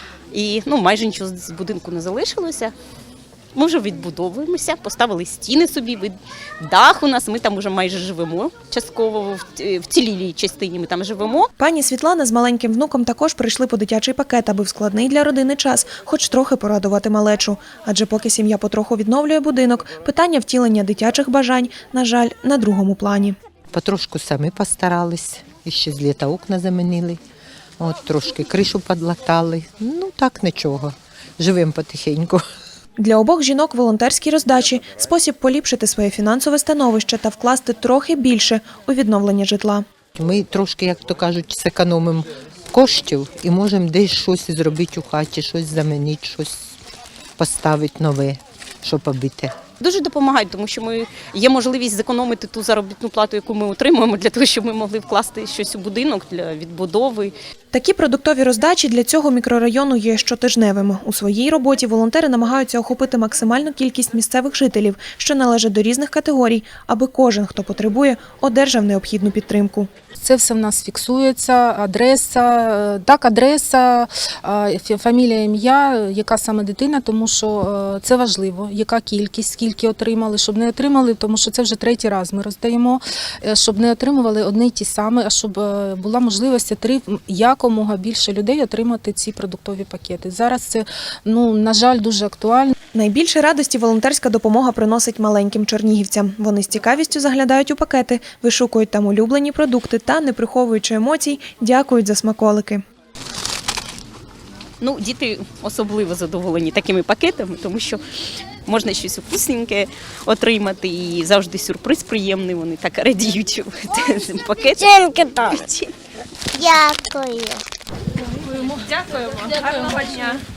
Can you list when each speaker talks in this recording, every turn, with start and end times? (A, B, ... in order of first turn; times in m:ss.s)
0:00.3-0:02.7 A
0:03.6-0:11.5 A
0:11.6-0:23.4 B
0:23.7-0:27.2 C
0:27.8-0:32.4 C
0:33.0-0:39.8 B
0:40.2-0:46.7 C
0:47.4-0:49.6 C
0:49.8-0:57.3 A
0:57.7-1:09.9 B
1:10.2-1:32.7 D
1:32.9-1:42.8 B
1:44.8-1:48.0 A
1:48.7-1:55.9 A
1:56.6-1:57.6 A
1:59.3-2:00.4 A